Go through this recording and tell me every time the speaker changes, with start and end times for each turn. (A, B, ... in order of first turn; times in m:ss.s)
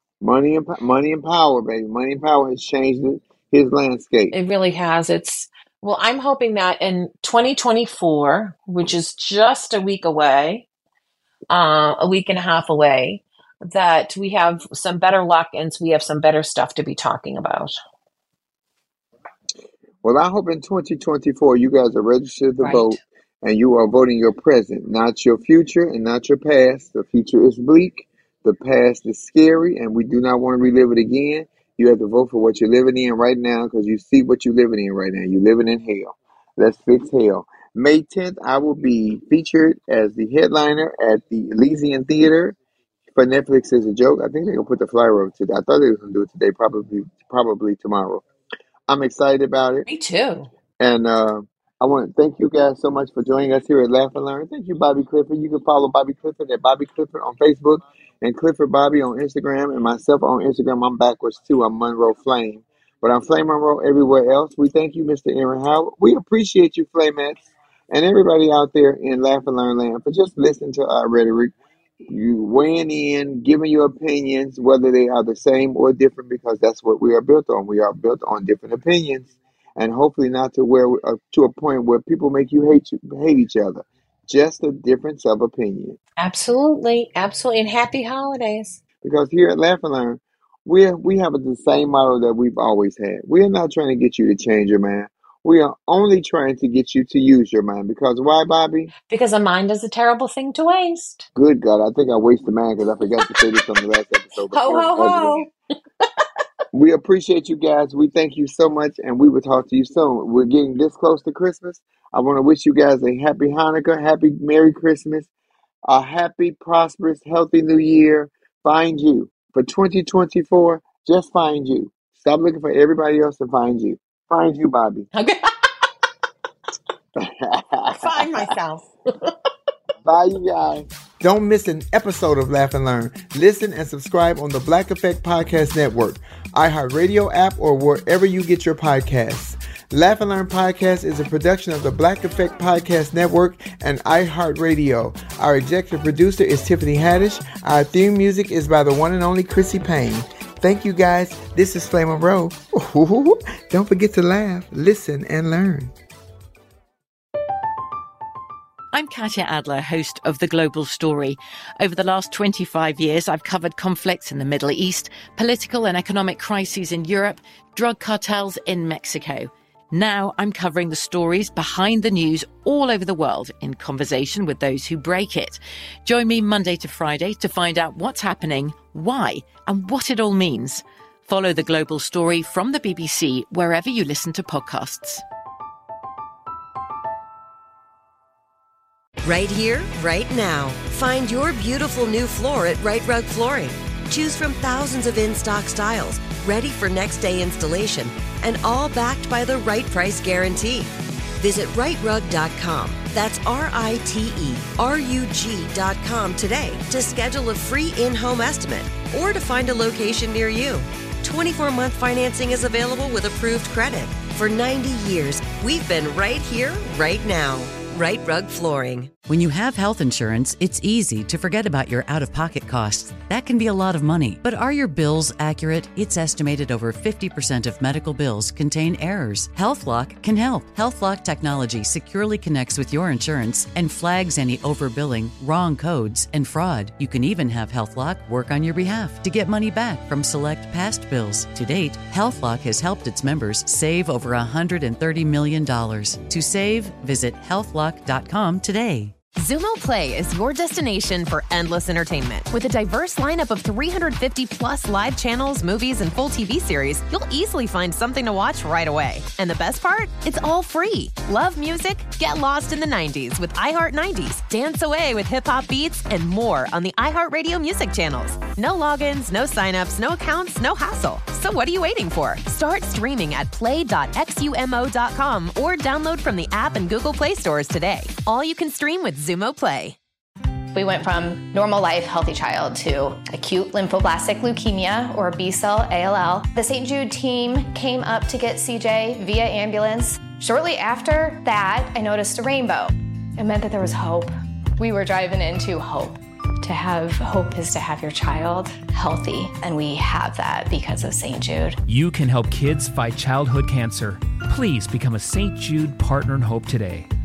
0:00.2-0:04.3 A
0:04.3-0:10.7 B
0:11.5-0:17.7 B
0:20.0-0:42.6 A
0:22.6-0:23.0 B
0:43.1-0:48.2 A
0:48.9-0:49.9 A
0:49.9-0:50.5 B
0:50.8-1:07.4 A
1:07.9-1:11.5 A
1:12.1-1:26.0 A
1:26.2-1:28.8 B
1:29.0-1:38.9 A
1:39.1-1:41.3 B
1:41.3-1:45.4 A
1:44.5-1:45.5 B
1:46.7-1:55.3 A
1:55.8-2:05.1 A
2:05.1-2:05.6 B
2:07.2-2:08.5 A
2:07.9-2:09.3 B
2:10.0-2:35.9 A
2:38.9-3:05.2 C
3:09.2-3:39.1 D
3:39.3-4:09.1 E
4:09.4-4:40.0 F
4:40.7-5:01.8 G
5:01.9-5:03.9 H
5:04.6-5:06.9 H